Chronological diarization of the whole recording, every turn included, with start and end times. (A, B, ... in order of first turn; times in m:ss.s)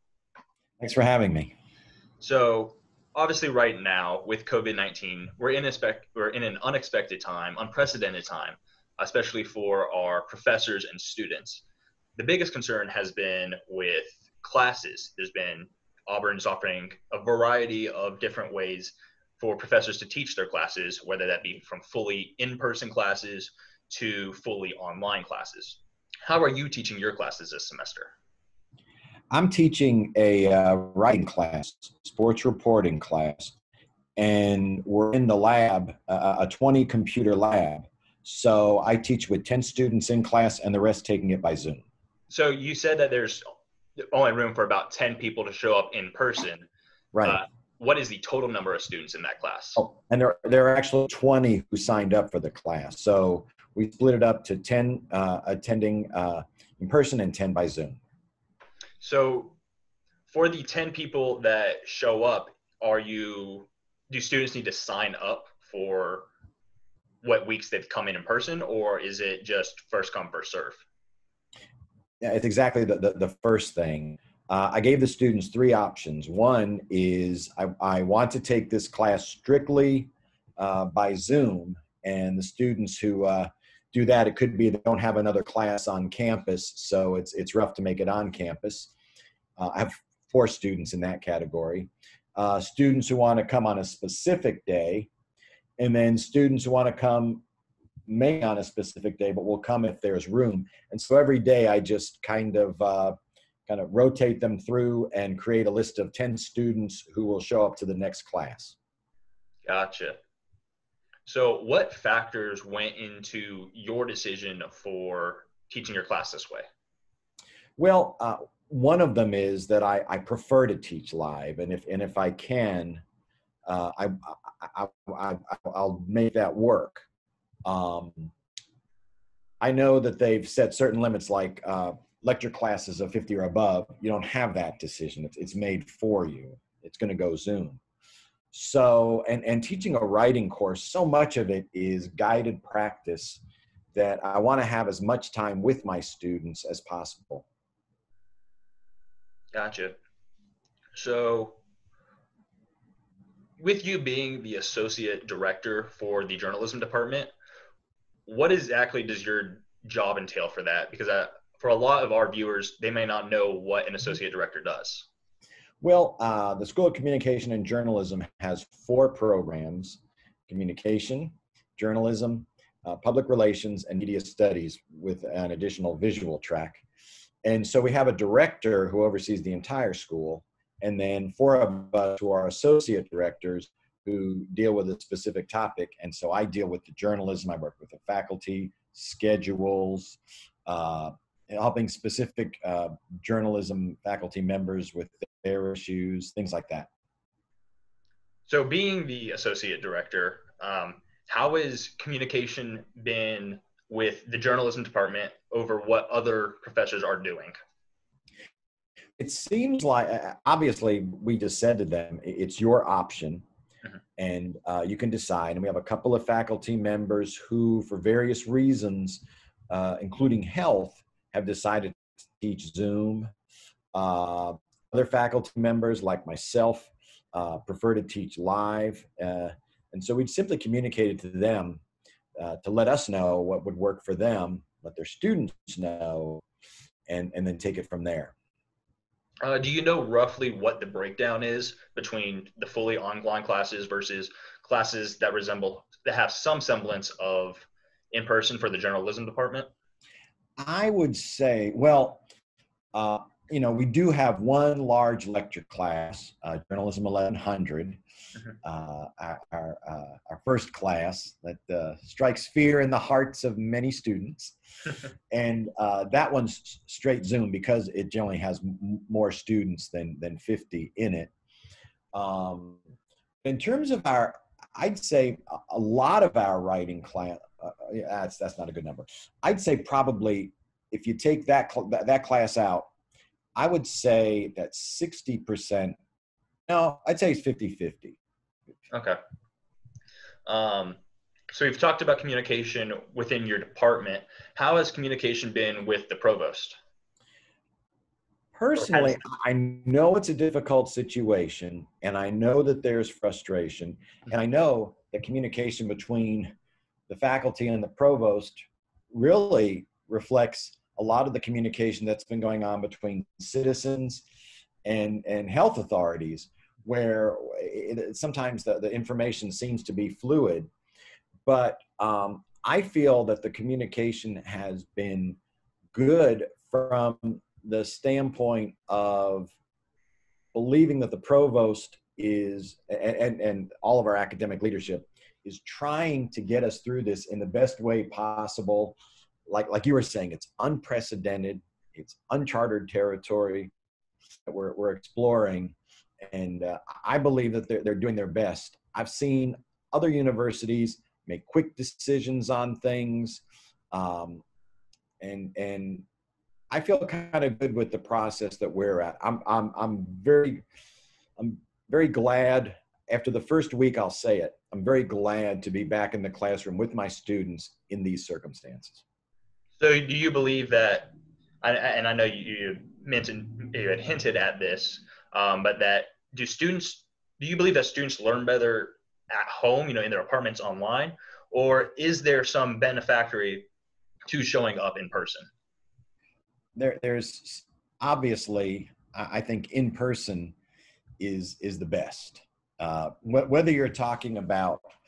0:00.8-0:01.5 A
0:02.2-0:11.6 B
0:12.2-0:28.1 B
0:29.3-0:33.6 A
0:34.2-0:41.8 A
0:42.3-0:43.4 B
0:44.0-0:46.7 B
0:47.1-0:47.4 A
0:47.2-0:49.8 B
0:49.8-0:58.0 A
0:59.0-0:59.6 B
1:00.3-1:06.3 B
1:07.2-1:10.8 B
1:12.2-1:28.9 A
1:29.6-1:35.1 A
1:35.8-1:37.4 A
1:38.1-1:43.2 A
1:43.7-1:48.8 A
1:49.6-1:50.2 B
1:51.2-1:56.6 B
1:57.8-2:03.0 A
2:03.7-2:07.0 A
2:07.6-2:08.3 A
2:09.6-2:17.8 A
2:18.5-2:23.4 A
2:23.9-2:27.4 A
2:29.5-2:30.0 B
2:30.9-2:31.6 B
2:33.6-2:37.3 B
2:38.2-2:45.1 B
2:45.8-2:56.8 A
2:57.4-3:16.9 A
3:18.5-3:27.6 B
3:29.2-3:33.4 A
3:34.2-3:43.3 A
3:43.9-3:51.8 A
3:52.4-3:56.4 A
3:57.1-3:58.3 A
3:59.4-4:09.7 B
4:10.6-4:12.2 A
4:12.9-4:18.0 A
4:18.6-4:24.5 A
4:25.3-4:31.3 A
4:32.1-4:32.8 A
4:33.4-4:42.9 A
4:43.6-4:46.0 A
4:46.7-4:48.2 A
4:48.9-4:49.2 B
4:50.4-4:51.0 B
4:51.5-4:56.8 B
4:58.5-5:06.5 A
4:58.8-4:59.2 B
5:07.1-5:14.2 A
5:14.8-5:20.7 A
5:21.4-5:25.4 A
5:25.9-5:29.5 A
5:30.5-5:43.7 A
5:44.4-5:54.4 A
5:55.2-5:56.0 A
5:56.7-6:00.6 A
6:01.4-6:09.0 A
6:09.8-6:23.7 B
6:24.3-6:25.5 B
6:26.8-6:30.5 A
6:31.2-6:34.8 A